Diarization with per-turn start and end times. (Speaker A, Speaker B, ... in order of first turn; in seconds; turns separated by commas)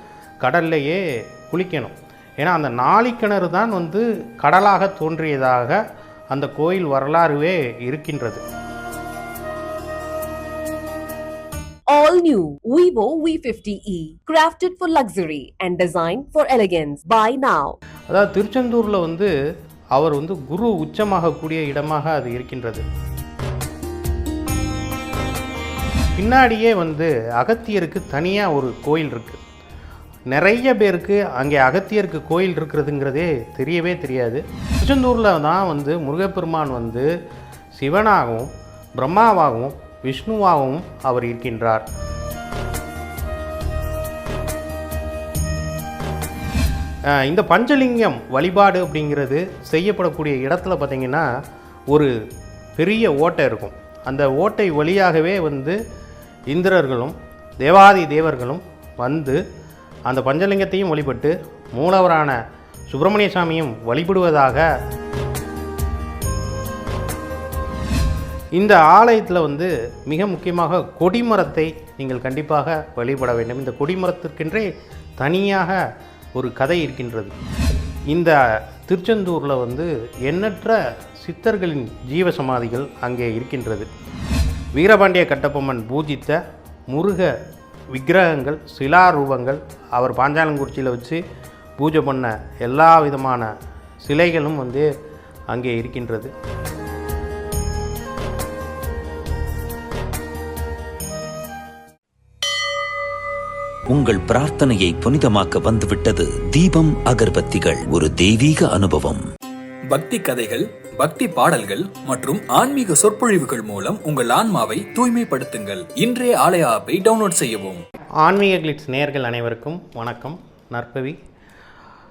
Speaker A: 0.4-8.4, Speaker B: 11.9-17.8, Speaker A: 18.1-19.3, Speaker A: 19.9-22.8, Speaker A: 26.2-29.4, Speaker A: 30.3-37.1, Speaker A: 37.8-41.8, Speaker A: 47.1-51.3, Speaker A: 52.8-55.8, Speaker A: 56.5-59.4, Speaker A: 60.1-62.4, Speaker A: 62.9-64.7, Speaker A: 68.6-74.7, Speaker A: 75.2-75.8, Speaker A: 76.4-77.3, Speaker A: 78.1-83.9, Speaker A: 84.8-87.3, Speaker A: 87.9-91.2, Speaker A: 91.8-93.5, Speaker A: 94.0-94.9, Speaker A: 95.5-96.3, Speaker C: 103.9-109.2, Speaker D: 109.9-117.8, Speaker A: 118.2-121.2